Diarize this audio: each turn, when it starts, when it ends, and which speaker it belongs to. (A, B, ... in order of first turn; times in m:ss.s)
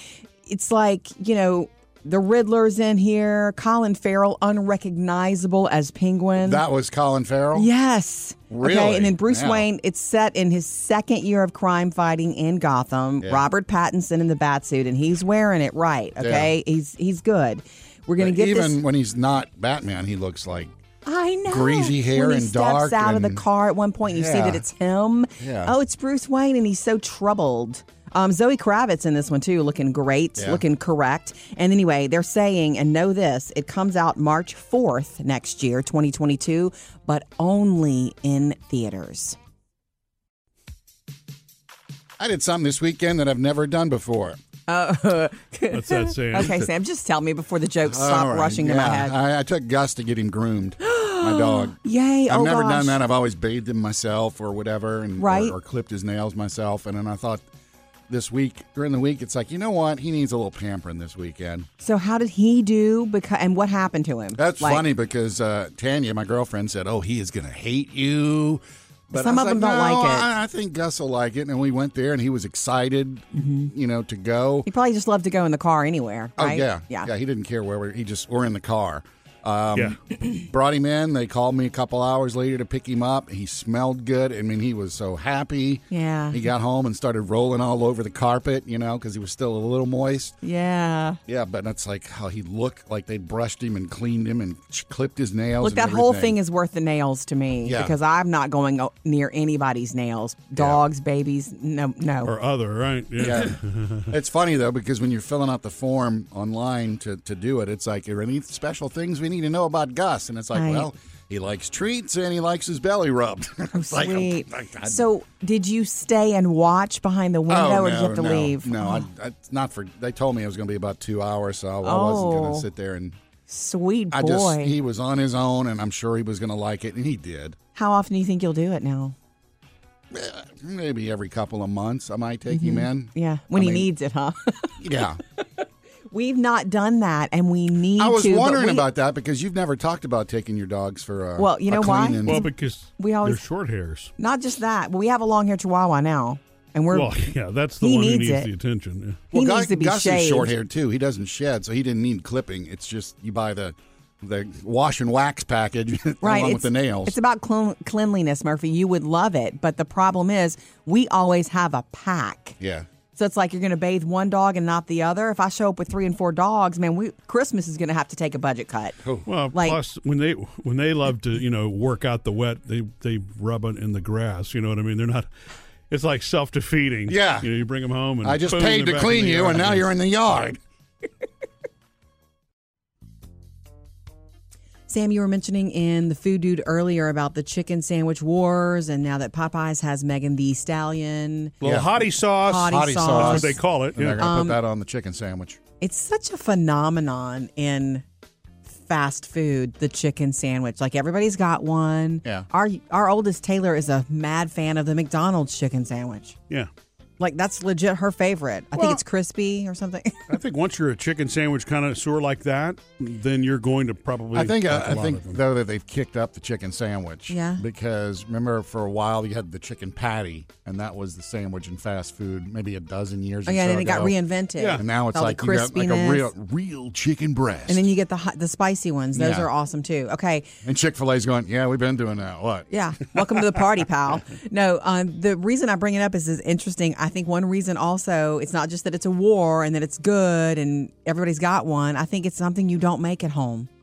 0:00.4-0:06.6 A
0:06.4-0:07.7 B
0:07.5-0:18.8 A
0:08.5-0:09.7 B
0:16.2-0:16.5 B
0:18.2-0:20.7 B
0:21.0-0:39.4 A
0:21.5-0:23.4 B
0:24.1-0:24.6 B
0:25.4-0:25.8 B
0:42.2-0:44.4 B
0:44.7-0:49.2 A
0:45.7-0:46.6 C
0:46.4-0:46.7 B
0:47.9-0:51.8 B
0:50.8-0:53.0 A
0:52.3-0:57.4 B
0:55.2-0:55.6 A
0:58.1-1:01.7 B
1:01.8-1:04.9 A
1:04.4-1:14.7 B
1:09.1-1:10.3 A
1:13.4-1:13.7 A
1:14.7-1:17.1 A
1:16.4-1:30.4 B
1:25.9-1:26.4 A
1:30.4-1:31.2 A
1:31.3-1:36.4 B
1:35.6-1:42.3 A
1:37.6-1:38.0 B
1:40.6-1:40.8 B
1:42.2-1:44.1 C
1:43.2-1:55.0 B
1:50.5-1:50.9 A
1:53.7-1:59.1 A
1:57.5-2:03.2 B
2:01.8-2:02.7 A
2:03.5-2:04.8 A
2:04.1-2:07.6 B
2:07.8-2:09.2 A
2:10.1-2:13.9 B
2:12.5-2:14.8 A
2:14.8-2:15.2 B
2:16.1-2:18.9 A
2:18.0-2:22.5 B
2:21.4-2:23.4 A
2:22.2-2:24.1 C
2:24.2-2:27.2 A
2:26.9-2:29.2 C
2:27.8-2:28.5 A
2:29.3-2:30.6 A
2:29.3-2:37.2 B
2:36.2-2:42.6 A
2:42.6-2:42.9 B
2:43.2-2:49.0 A
2:49.3-2:55.3 C
2:49.5-2:49.8 A
2:55.9-2:59.9 C
2:57.1-2:57.5 B
2:58.2-3:00.6 B
3:04.9-3:11.6 A
3:11.6-3:14.2 C
3:11.6-3:11.9 B
3:12.4-3:13.6 A
3:12.5-3:15.6 B
3:14.2-3:14.6 A
3:15.8-3:18.0 A
3:18.7-3:26.4 A
3:27.2-3:30.3 A
3:30.3-3:35.4 C
3:34.3-3:44.2 B
3:37.3-3:37.6 A
3:43.5-3:46.3 A
3:44.6-3:44.8 C
3:44.8-3:47.8 B
3:47.7-3:50.5 A
3:49.1-3:49.5 B
3:50.6-3:52.7 B
3:52.7-4:03.7 A